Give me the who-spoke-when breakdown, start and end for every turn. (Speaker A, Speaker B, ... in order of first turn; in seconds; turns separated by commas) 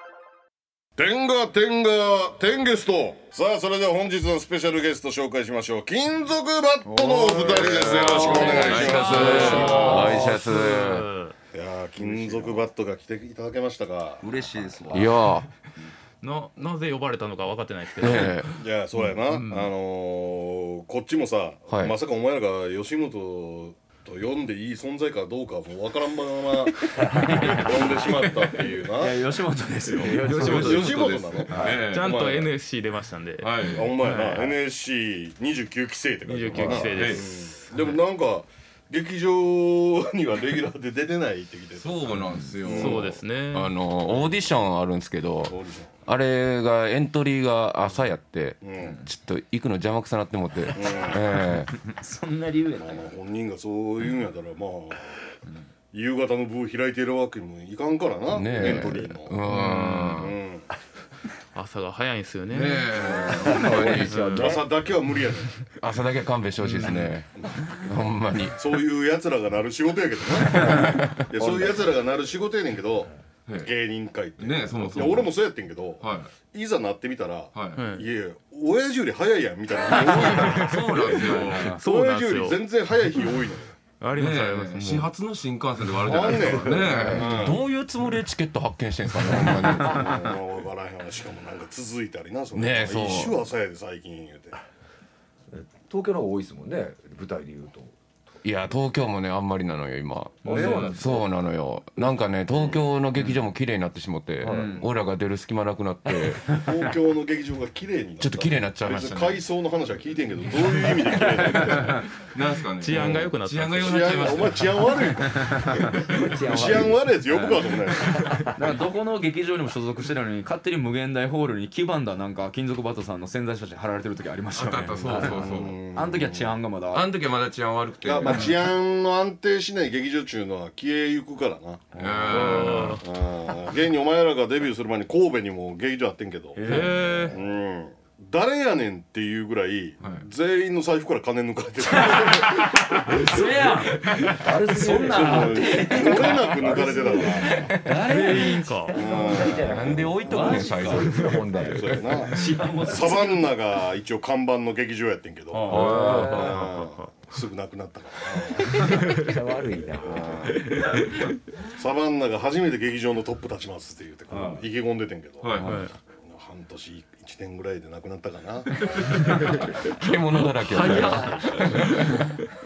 Speaker A: 1.0-10.3, Speaker B: 7.0-11.4, Speaker C: 7.3-10.3, Speaker D: 7.3-11.1, Speaker A: 11.5-15.1, Speaker C: 12.0-12.6, Speaker C: 14.2-15.3, Speaker D: 14.9-15.5, Speaker B: 16.2-18.6, Speaker D: 18.0-18.5, Speaker A: 18.6-29.2, Speaker B: 19.3-19.7, Speaker D: 21.7-22.0, Speaker C: 26.9-31.7, Speaker E: 27.0-27.6, Speaker E: 30.0-30.9, Speaker A: 30.1-32.5, Speaker B: 30.4-30.9, Speaker E: 31.5-31.8, Speaker D: 31.5-32.2, Speaker B: 31.9-34.5, Speaker D: 33.4-34.0, Speaker A: 33.7-43.1, Speaker B: 36.3-37.6, Speaker D: 36.8-37.3, Speaker D: 41.8-51.7, Speaker B: 42.6-43.7, Speaker A: 45.5-45.9, Speaker A: 48.6-49.0, Speaker A: 50.7-51.2, Speaker C: 51.8-53.1, Speaker A: 52.8-55.2, Speaker A: 55.9-59.4, Speaker D: 58.3-60.4, Speaker B: 59.5-60.1, Speaker A: 60.1-60.7, Speaker B: 61.5-62.9, Speaker D: 62.5-64.5, Speaker A: 63.0-65.7, Speaker E: 63.4-64.7, Speaker B: 64.0-64.6, Speaker D: 65.8-68.6, Speaker A: 66.8-67.7, Speaker A: 68.6-83.8, Speaker D: 70.5-71.2, Speaker E: 71.3-71.9, Speaker D: 73.5-73.7, Speaker D: 74.4-75.3, Speaker D: 76.0-76.3, Speaker D: 77.5-77.8, Speaker B: 77.8-78.1, Speaker D: 80.0-81.8, Speaker B: 80.5-82.6, Speaker B: 84.0-85.1, Speaker D: 84.2-90.3, Speaker A: 86.0-87.6, Speaker E: 86.4-87.4, Speaker A: 89.3-94.6, Speaker D: 92.5-93.4, Speaker E: 95.5-98.0, Speaker D: 98.4-106.6, Speaker E: 100.5-101.2, Speaker C: 100.5-100.9, Speaker E: 104.4-104.8, Speaker C: 104.5-104.8, Speaker A: 106.5-112.1, Speaker D: 108.2-109.4, Speaker D: 111.5-115.1, Speaker C: 111.6-112.0, Speaker B: 112.8-114.4, Speaker A: 112.9-113.2, Speaker A: 113.8-118.5, Speaker E: 116.1-117.1, Speaker E: 118.1-118.5, Speaker C: 118.5-125.4, Speaker D: 124.5-125.8, Speaker A: 125.1-126.6, Speaker C: 125.9-127.1, Speaker D: 126.9-128.7, Speaker A: 128.0-132.1, Speaker D: 131.9-133.0, Speaker B: 132.3-133.1, Speaker A: 133.0-136.7, Speaker C: 136.6-137.3, Speaker B: 136.7-137.4, Speaker A: 137.3-143.4, Speaker C: 141.9-151.3, Speaker E: 144.3-147.7, Speaker A: 145.0-147.7, Speaker B: 147.9-149.0, Speaker E: 148.8-151.9, Speaker A: 148.9-150.0, Speaker D: 149.4-151.8, Speaker A: 151.7-159.0, Speaker C: 152.2-153.4, Speaker C: 155.5-156.4, Speaker D: 155.7-156.7, Speaker E: 155.8-156.6, Speaker B: 156.1-157.1, Speaker B: 158.8-159.3, Speaker E: 159.1-160.5, Speaker A: 160.0-160.6, Speaker B: 160.7-161.2, Speaker A: 161.7-169.7, Speaker C: 164.3-164.7, Speaker D: 165.4-165.9, Speaker C: 165.6-165.9, Speaker B: 165.6-165.9, Speaker B: 168.9-172.5, Speaker D: 169.4-172.2, Speaker C: 170.8-171.7